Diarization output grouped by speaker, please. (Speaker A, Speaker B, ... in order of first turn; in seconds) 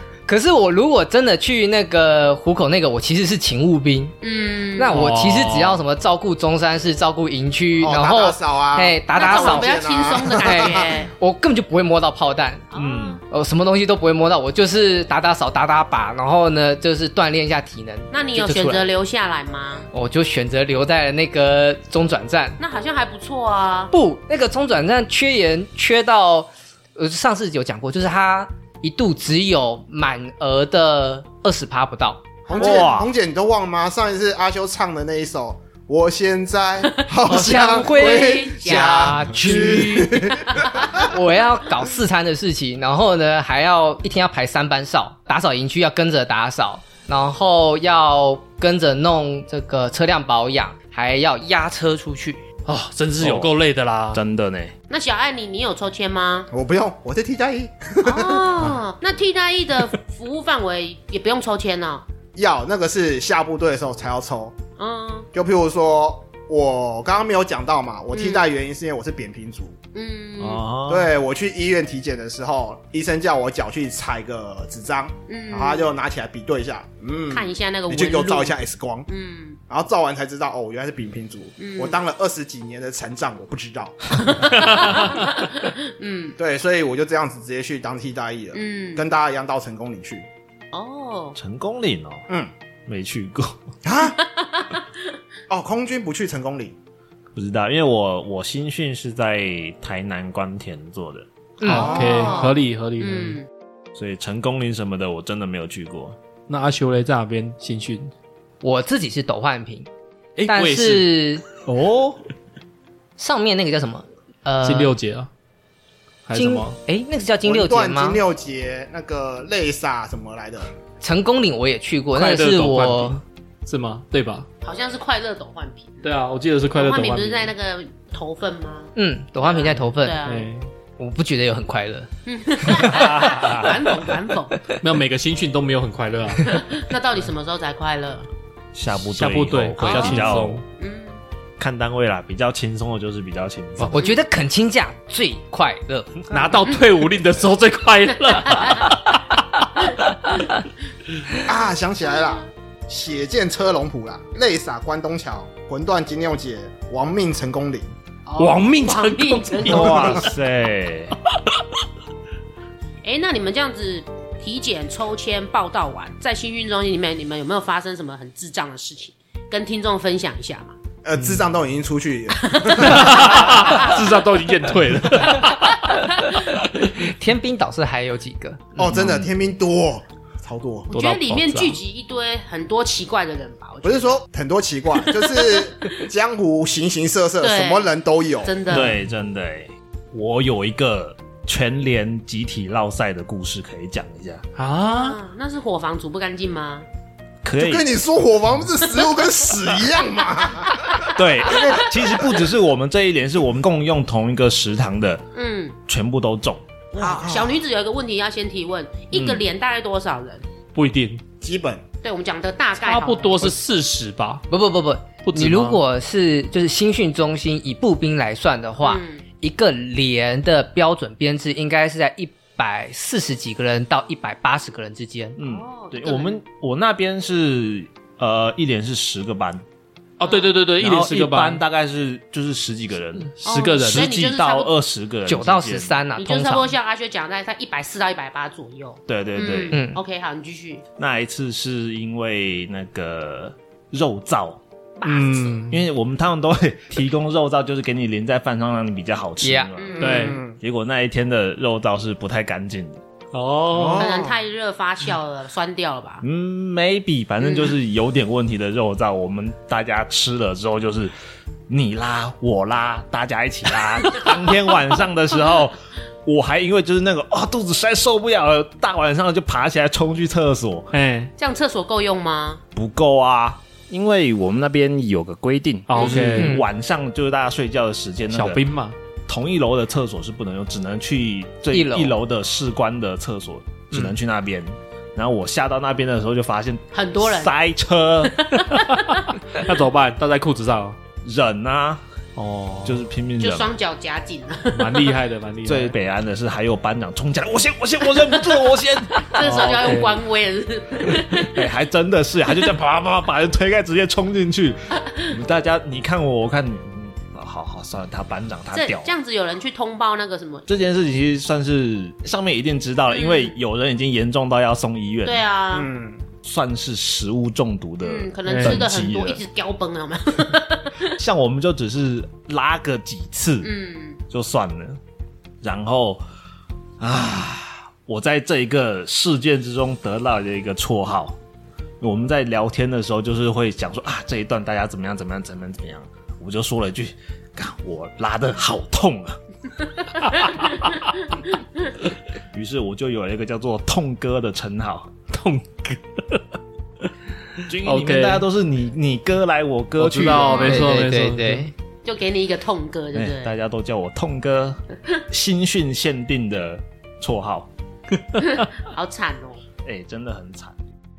Speaker A: 0.3-4.2, 4.8-9.8, 10.3-12.7, 13.3-18.9, 19.9-22.6, 23.9-32.2, 37.2-40.4, 41.0-52.4, 101.6-102.0, 108.6-109.9, 110.5-111.4, 113.2-114.9, 116.3-118.2, 121.0-123.2, 128.9-130.2, 131.0-132.1, 143.9-146.4, 176.8-179.1, 214.5-225.4, 235.3-236.7, 239.7-240.0, 249.4-249.7, 276.3-276.6, 281.7-282.1, 350.5-351.7
Speaker B: 4.2-5.0, 9.1-11.1, 12.7-13.2, 18.1-19.9, 22.6-23.9, 32.5-33.0, 37.0-39.7, 40.5-40.9, 54.9-56.5, 58.0-62.0, 64.8-65.3, 68.1-68.4, 69.9-70.6, 75.3-75.9, 77.3-78.5, 79.1-79.6, 81.6-82.0, 84.2-86.4, 88.5-89.0, 90.7-91.4, 94.2-94.8, 101.7-103.5, 124.6-126.1, 126.7-130.5, 132.2-134.7, 136.4-138.3, 139.8-141.2, 148.4-148.9, 152.1-152.4, 158.2-160.2, 163.0-170.8, 172.4-174.0, 180.9-184.2, 185.4-186.0, 187.4-187.9, 188.4-188.9, 194.8-196.8, 205.3-205.8, 207.0-210.4, 212.0-213.6, 218.8-219.2, 225.4-226.4, 230.2-230.5, 233.4-234.7, 236.2-240.8, 245.0-245.6, 249.8-250.4, 254.0-256.2, 257.4-257.7, 271.4-272.6, 286.9-287.5, 293.4-295.2, 299.2-301.6, 308.7-310.7, 313.1-313.5, 315.2-315.9, 318.0-321.2, 323.6-324.2, 352.0-353.5, 358.4-359.6
Speaker C: 4.9-5.8, 52.6-54.2, 101.6-103.4, 106.5-108.1, 110.4-111.1, 114.6-115.3, 116.3-116.8, 122.1-124.5, 126.0-127.5, 130.2-130.7, 134.8-136.7, 139.1-140.6, 146.3-149.4, 158.4-160.3, 172.8-176.0, 180.9-181.8, 188.7-188.9, 194.6-195.2, 210.7-211.2, 212.8-214.4, 215.2-215.8, 230.2-231.6, 233.4-234.1, 245.0-245.8, 250.0-250.4, 253.3-254.1, 270.9-271.3, 275.9-276.6, 278.3-278.9, 288.6-291.0, 292.4-293.0, 294.7-295.9, 299.4-300.2, 318.4-318.8, 340.2-340.9, 345.3-346.4, 347.6-348.4, 350.0-351.7, 358.1-358.6
Speaker D: 7.8-10.9, 32.5-41.1, 56.5-58.5, 62.3-64.6, 65.3-69.8, 70.9-79.1, 79.7-85.2, 86.4-90.3, 93.8-94.2, 95.5-96.7, 101.7-102.5, 117.4-120.7, 151.4-157.9, 171.0-173.9, 178.8-180.9, 183.8-188.6, 197.6-201.8, 206.9-207.6, 211.4-211.8, 250.0-250.6, 253.7-254.4, 315.7-316.2
Speaker E: 12.7-13.2, 32.6-33.1, 53.2-53.5, 54.1-54.7, 70.4-71.1, 91.3-92.2, 92.9-93.6, 97.3-101.3, 103.9-106.2, 111.7-112.2, 132.8-133.8, 138.7-140.6, 141.6-143.9, 159.7-161.1, 178.9-179.3, 188.7-194.4, 197.4-197.9, 201.1-205.2, 205.9-206.6, 209.1-209.4, 225.4-229.6, 230.8-236.0, 239.1-239.8, 241.0-244.6, 245.7-253.0, 256.2-261.1, 261.7-270.9, 272.7-278.6, 279.3-288.6, 291.2-292.0, 292.8-293.7, 295.6-300.0, 301.1-309.1, 310.7-315.4, 316.4-319.4, 321.2-323.7, 324.3-325.0, 325.6-326.2, 327.0-331.4, 332.0-339.4, 342.5-345.1, 347.6-350.9, 353.1-357.7, 359.8-360.8